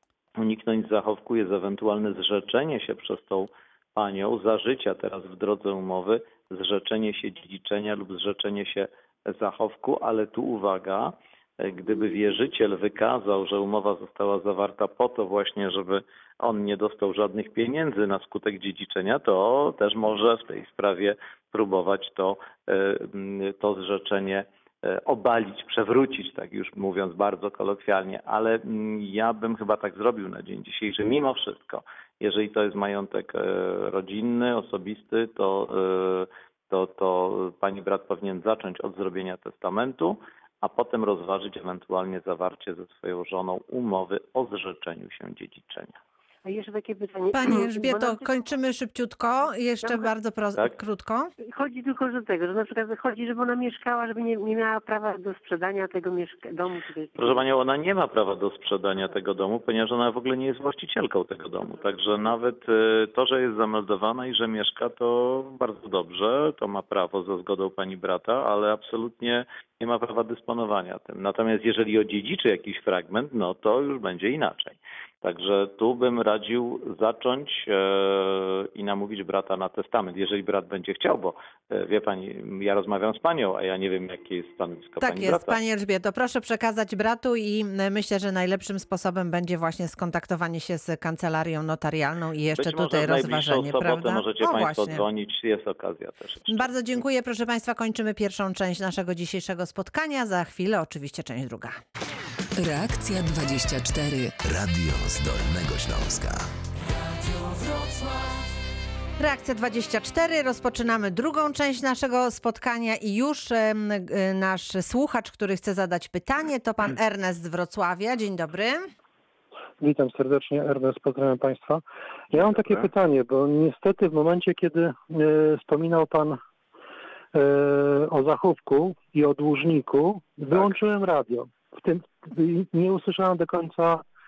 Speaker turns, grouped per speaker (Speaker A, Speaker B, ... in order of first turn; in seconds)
Speaker A: 0.4-46.0, 57.1-85.6, 92.6-96.7, 122.4-122.9
Speaker B: 46.4-48.4, 49.8-50.1, 51.4-57.4
Speaker C: 47.3-51.3, 85.0-95.0, 96.5-101.8, 109.2-118.8
Speaker D: 102.6-104.4, 106.7-108.5
Speaker E: 104.4-106.5
Speaker F: 119.8-126.4, 127.3-134.1